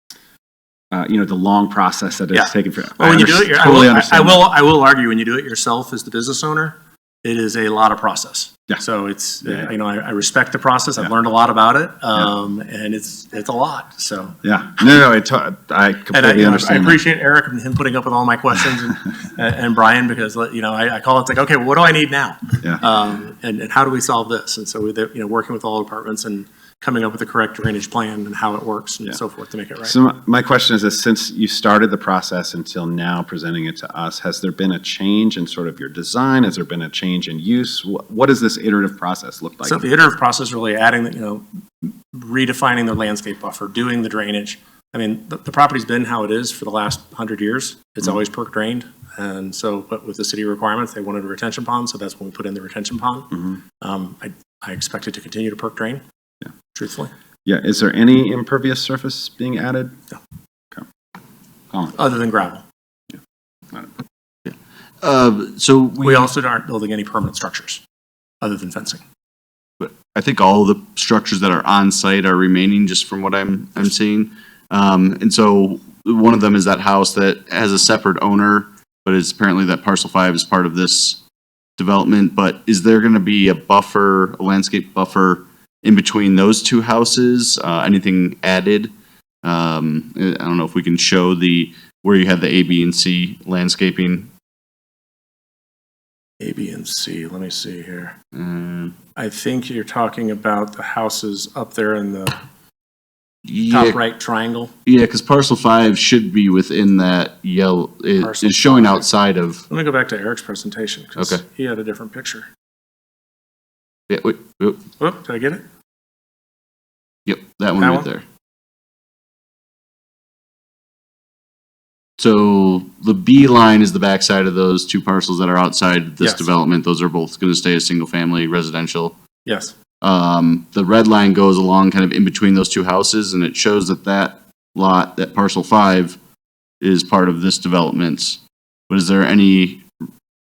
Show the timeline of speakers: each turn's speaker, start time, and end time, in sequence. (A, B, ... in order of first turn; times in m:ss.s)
0:00.9-0:04.4 A
0:02.3-0:14.4 B
0:14.4-0:17.0 A
0:16.1-0:30.0 B
0:29.8-0:39.8 A
0:39.6-0:56.0 B
0:56.7-0:57.1 B
0:57.4-1:00.0 A
1:01.9-1:02.6 B
1:04.5-1:06.3 C
1:06.0-1:07.8 B
1:08.4-1:09.0 B
1:09.8-1:21.2 C
1:21.8-1:28.9 C
1:29.4-1:34.3 C
1:36.4-1:38.2 B
1:38.4-1:38.9 C
1:39.2-1:42.4 B
1:43.4-1:44.0 C
1:43.7-1:44.7 B
1:44.9-1:49.6 C
1:48.2-1:49.0 B
1:49.7-1:52.5 B
1:54.1-1:54.8 C
1:55.0-1:55.6 B
1:57.3-1:58.2 C
1:57.8-1:58.1 B
2:02.2-2:09.2 C
2:06.2-2:06.5 B
2:09.5-2:09.8 B
2:10.0-2:16.2 C
2:16.8-2:18.4 C
2:18.9-2:19.8 C